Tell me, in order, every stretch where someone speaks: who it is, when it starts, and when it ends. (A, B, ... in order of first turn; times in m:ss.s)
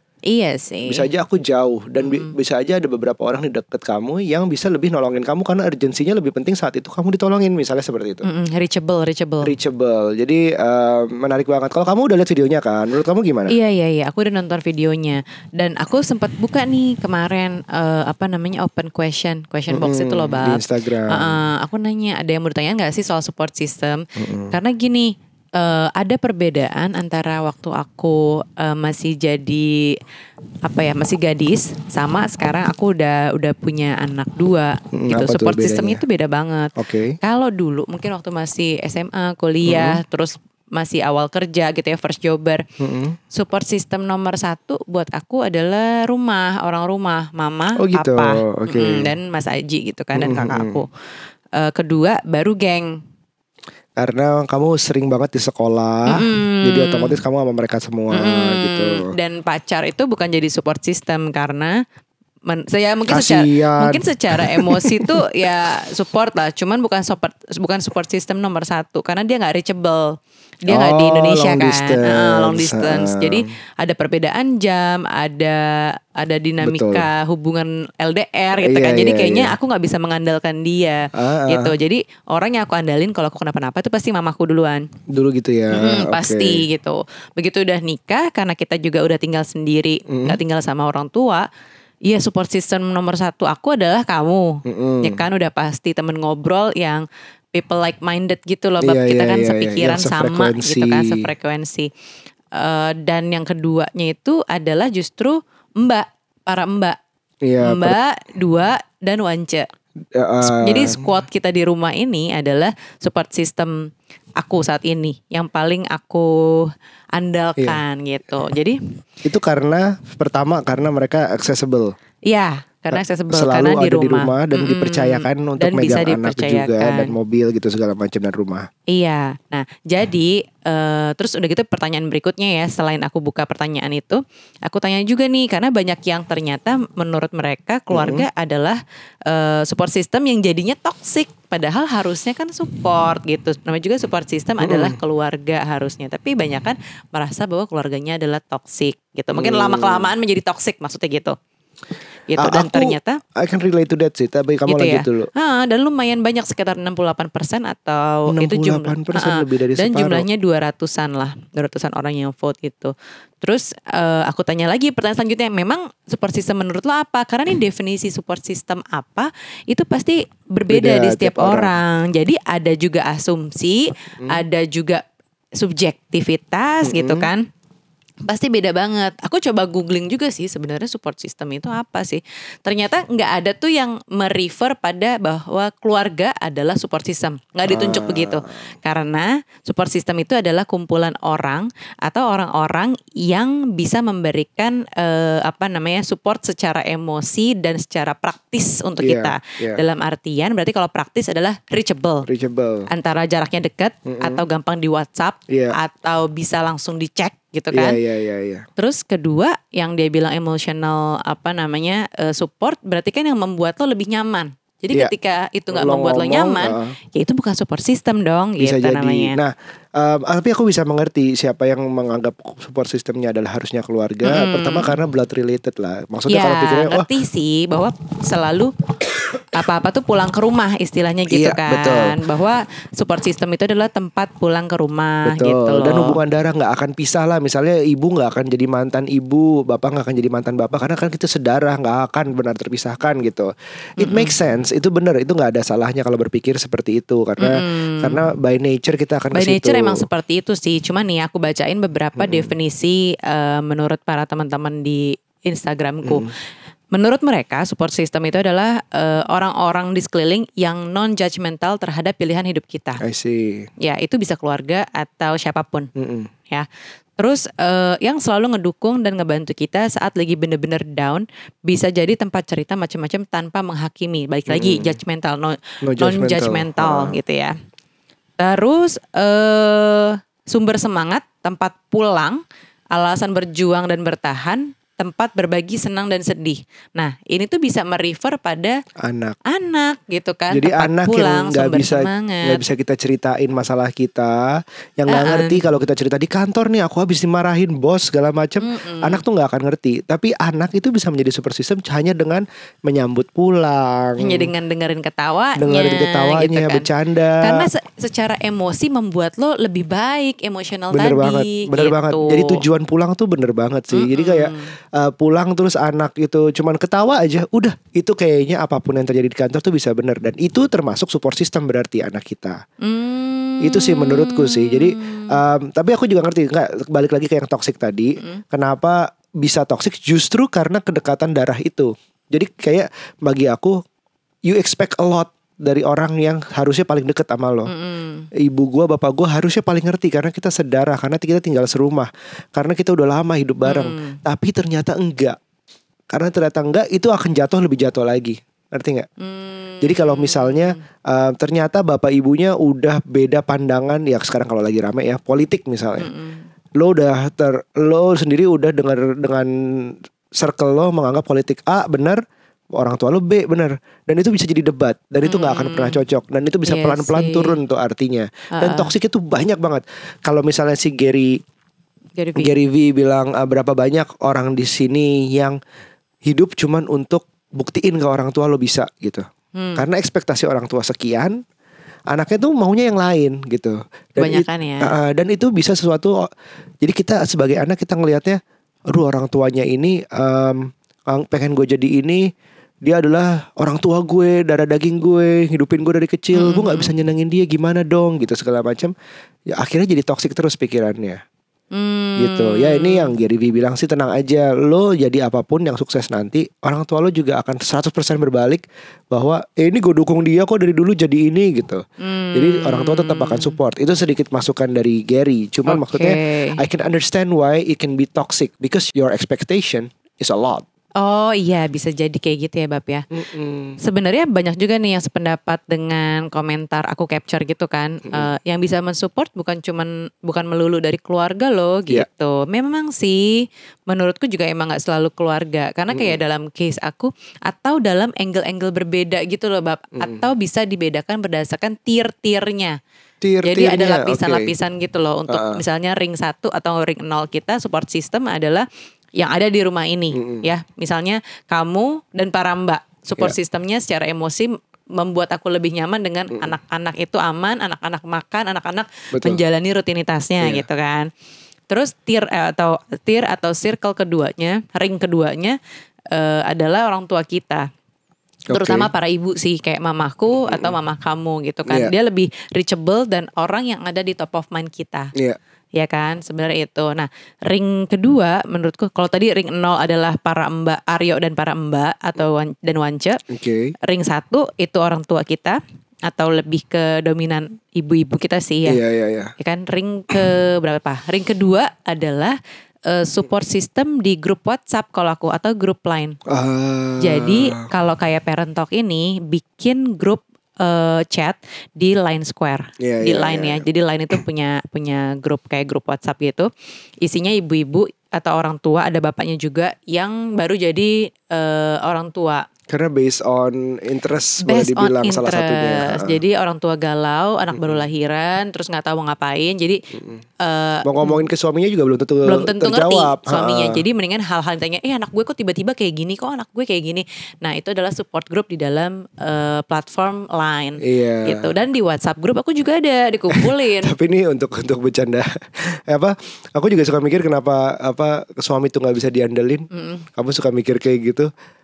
0:00.3-0:01.1 A
0:00.9-0:08.3 B
0:02.0-0:02.3 A
0:08.2-0:09.5 A
0:09.4-0:13.6 B
0:13.5-0:30.0 A
0:19.7-0:21.4 B
0:24.2-0:24.6 B
0:30.6-0:42.6 A
0:34.9-0:36.0 B
0:36.8-0:37.2 B
0:39.6-0:40.0 B
0:42.8-0:43.2 B
0:43.3-0:50.9 A
0:47.8-0:49.1 B
0:50.2-0:50.8 B
0:51.6-0:53.0 A
0:54.0-0:59.1 B
0:56.1-0:57.2 A
0:58.1-1:01.8 A
1:02.5-1:24.9 A
1:03.1-1:05.3 B
1:10.7-1:13.5 B
1:16.6-1:17.1 B
1:18.6-1:19.5 B
1:21.1-1:21.7 B
1:25.1-1:26.6 B
1:25.7-1:31.5 A
1:30.1-1:30.4 B
1:32.0-1:41.9 A
1:34.7-1:35.2 B
1:38.8-1:41.3 B
1:42.6-1:47.0 A
1:47.4-1:48.0 B
1:47.6-1:49.7 A
1:50.2-1:51.0 B
1:50.4-1:58.8 A
1:59.2-2:02.0 B
2:02.3-2:07.1 A
2:02.9-2:08.7 B
2:08.9-2:31.4 A
2:17.9-2:18.3 B
2:24.6-2:25.0 B
2:29.3-2:30.1 B
2:32.3-2:33.2 A
2:32.4-2:35.3 B
2:34.7-2:55.0 A
2:38.3-2:40.2 B
2:50.7-2:51.7 B
2:55.6-2:57.5 A
2:56.9-2:57.3 B
2:58.3-3:22.3 A
3:07.7-3:08.7 B
3:19.0-3:19.8 B
3:22.2-3:22.9 B
3:22.9-3:28.0 A
3:24.1-3:24.4 B
3:25.5-3:25.8 B
3:27.7-3:28.6 B
3:28.8-3:39.4 A
3:35.7-3:37.0 B
3:38.6-3:47.1 B
3:44.2-3:44.9 A
3:46.3-3:48.7 A
3:49.5-3:56.2 A
3:51.3-3:52.2 B
3:55.2-4:10.1 B
4:04.0-4:04.3 A
4:07.4-4:08.2 A
4:09.3-4:16.3 A
4:12.2-4:12.5 B
4:16.0-4:16.3 B
4:16.9-4:23.0 A
4:23.0-4:23.7 B
4:23.8-4:25.9 A
4:26.0-4:26.3 B
4:27.2-4:37.6 A
4:34.5-4:35.0 B
4:35.8-4:37.2 B
4:38.4-4:42.4 A
4:42.9-4:48.8 A
4:49.0-4:49.4 B
4:49.5-4:52.6 A
4:50.5-4:54.5 B
4:55.0-5:04.5 B
4:55.1-4:55.6 A
4:58.6-4:59.2 A
5:04.2-5:06.9 A
5:05.6-5:07.7 B
5:07.4-5:12.6 A
5:10.9-5:22.6 B
5:13.9-5:14.7 A
5:22.8-5:25.3 A
5:23.6-5:33.8 B
5:34.5-5:37.7 B
5:37.7-5:38.3 A
5:38.4-5:45.4 B
5:43.6-5:44.2 A
5:46.1-5:49.1 B
5:49.2-5:50.8 A
5:49.8-5:56.1 B
5:56.0-5:56.4 A
5:56.8-6:02.2 B
6:02.8-6:11.4 B
6:05.3-6:06.0 A
6:06.6-6:07.6 A
6:08.6-6:08.9 A
6:12.2-6:12.5 A
6:12.4-6:15.6 B
6:16.3-6:21.4 B
6:19.6-6:19.8 A
6:22.1-6:26.2 B
6:24.2-6:24.9 A
6:26.8-6:28.4 B
6:28.9-6:32.3 B
6:32.8-6:38.9 B
6:36.3-6:36.9 A
6:39.6-6:41.2 B
6:41.7-6:43.1 A
6:42.2-6:51.8 B
6:52.0-6:53.6 A
6:52.3-7:00.6 B
6:55.7-6:56.5 A
7:01.0-7:03.1 A
7:03.1-7:03.8 B
7:03.8-7:22.8 A
7:15.9-7:16.2 B
7:20.0-7:20.2 B
7:23.2-7:24.5 B
7:23.4-7:41.1 A
7:25.3-7:25.6 B
7:30.1-7:30.5 B
7:39.1-7:39.4 B
7:41.7-7:45.6 A
7:46.1-7:47.7 A
7:48.5-7:48.9 B
7:48.5-7:55.1 A
7:50.5-7:50.7 B
7:51.7-7:51.9 B
7:55.7-8:03.2 A
8:03.3-8:03.8 B
8:03.8-8:08.8 A
8:08.6-8:09.3 B
8:09.4-8:16.2 A
8:16.3-8:17.7 B
8:17.0-8:26.5 A
8:22.8-8:23.6 B
8:27.0-8:32.5 A
8:32.7-8:36.2 B
8:34.4-8:39.8 A
8:37.5-8:37.8 B
8:39.9-8:40.2 B
8:40.4-8:41.2 A
8:40.8-8:43.8 B
8:42.3-8:53.9 A
8:50.8-8:51.5 B
8:53.3-9:01.3 B
8:59.7-9:00.0 A